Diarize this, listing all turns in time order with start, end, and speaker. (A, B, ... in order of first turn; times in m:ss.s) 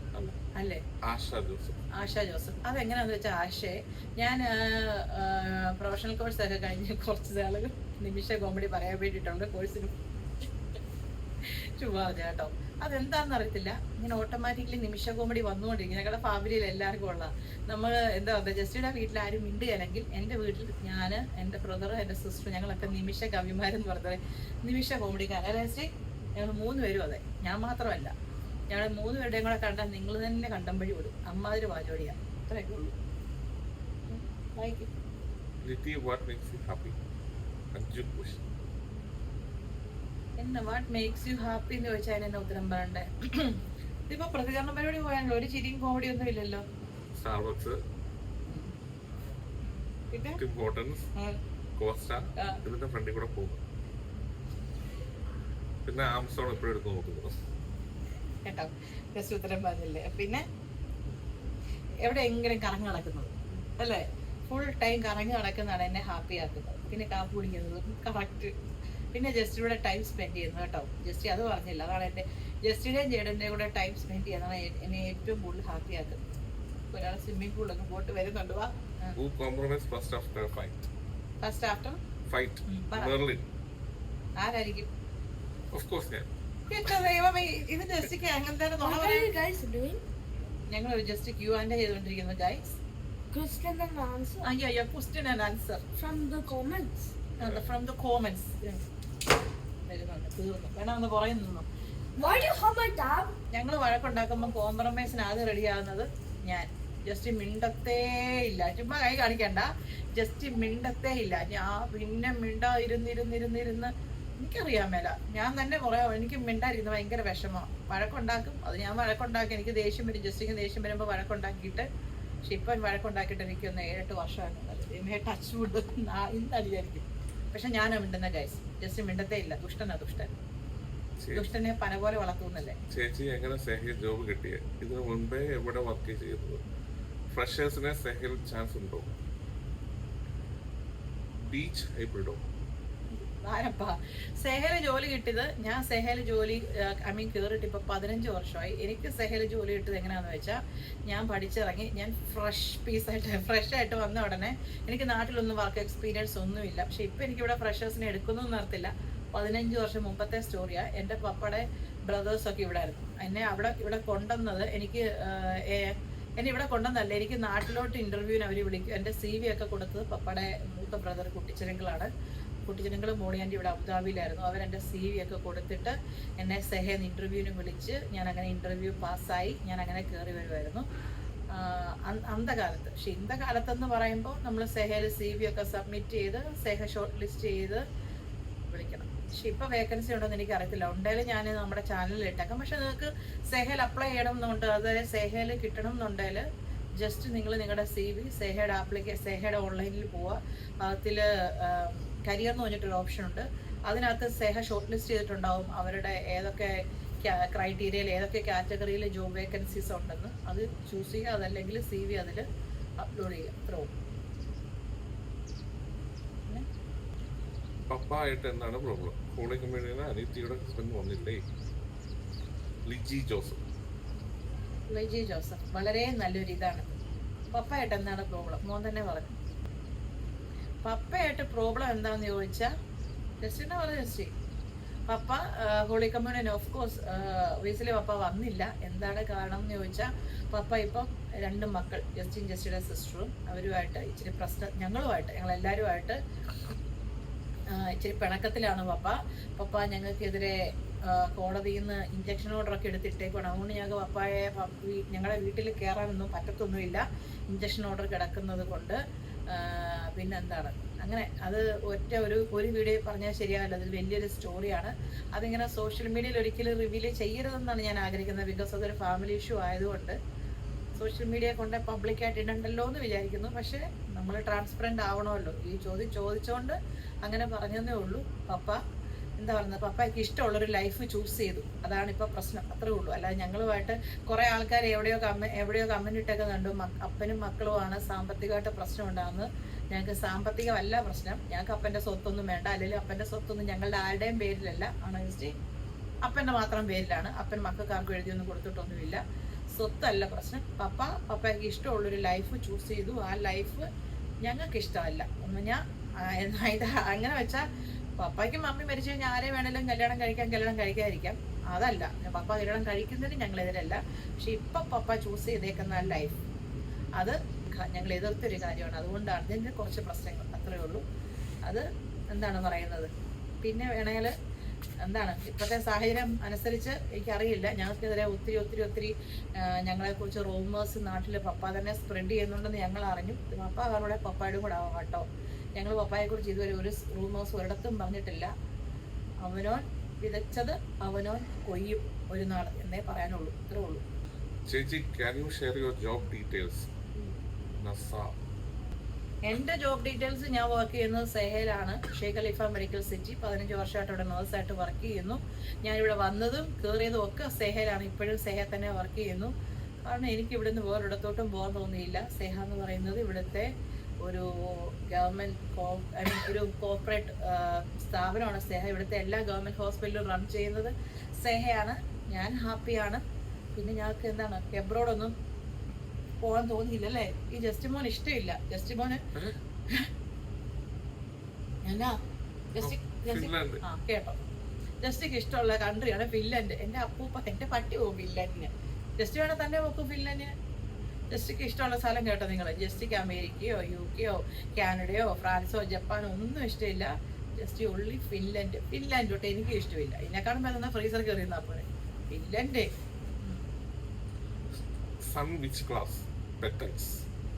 0:00.4-0:00.8 A
0:01.0-0:01.8 B
0:02.0-0:10.0 A
0:11.4-0:28.1 A
0:28.7-0:32.9 A
0:34.1-0:34.9 A
0:35.6-0:37.0 B
0:37.7-0:38.4 B
0:40.4-0:46.6 A
0:47.2-0:47.8 B
0:48.4-0:48.7 A
0:50.1-0:50.4 A
0:50.4-0:51.1 B
0:51.8-0:53.6 B
0:52.4-0:52.6 A
0:55.8-0:57.3 B
0:58.4-1:00.4 A
1:02.0-1:08.5 A
1:09.1-1:16.2 A
1:16.9-1:19.2 A
1:19.2-1:20.9 B
1:21.4-1:22.0 A
1:22.3-1:23.4 B
1:22.7-1:23.2 A
1:24.4-1:24.9 A
1:25.7-1:26.3 B
1:26.7-1:29.4 A
1:28.8-1:30.0 C
1:30.7-1:32.8 A
1:33.3-1:34.5 C
1:34.4-1:35.8 A
1:36.0-1:37.1 C
1:37.4-1:37.7 B
1:37.4-1:38.8 A
1:39.9-1:41.6 A
1:42.2-1:43.4 C
1:43.5-2:01.9 A
2:02.4-2:10.3 A
2:11.2-2:11.5 B
2:11.3-2:12.8 A
2:12.9-2:16.6 B
2:17.3-2:19.1 B
2:21.5-2:22.4 B
2:23.1-2:52.1 A
2:52.6-3:00.8 A
3:01.5-3:07.8 A
3:08.7-3:16.4 A
3:17.0-3:32.4 A
3:33.0-3:33.9 A
3:37.9-3:41.4 B
3:42.8-3:43.6 B
3:44.9-3:46.8 A
3:47.5-3:49.4 A
3:50.8-3:52.7 A
3:53.4-3:54.3 A
3:55.1-4:06.2 A
4:07.7-4:30.2 A
4:31.0-4:38.8 A
4:39.4-4:55.5 A
4:56.2-4:59.2 A
4:59.8-5:03.9 A
5:04.4-5:07.6 A
5:08.2-5:16.4 A
5:17.2-5:21.0 A
5:21.6-5:23.1 A
5:23.6-5:24.3 A
5:25.0-5:35.2 A
5:35.8-5:38.5 A
5:39.4-5:44.0 A
5:44.7-5:46.9 B
5:47.8-5:48.3 B
5:49.4-5:59.5 A
6:00.0-6:03.7 A
6:04.2-6:13.2 A
6:13.8-6:15.3 A
6:16.4-6:19.2 A
6:21.8-6:22.2 A
6:22.7-6:24.4 A
6:22.8-6:23.8 B
6:25.0-6:30.5 A
6:31.3-6:42.9 A
6:45.2-6:47.2 B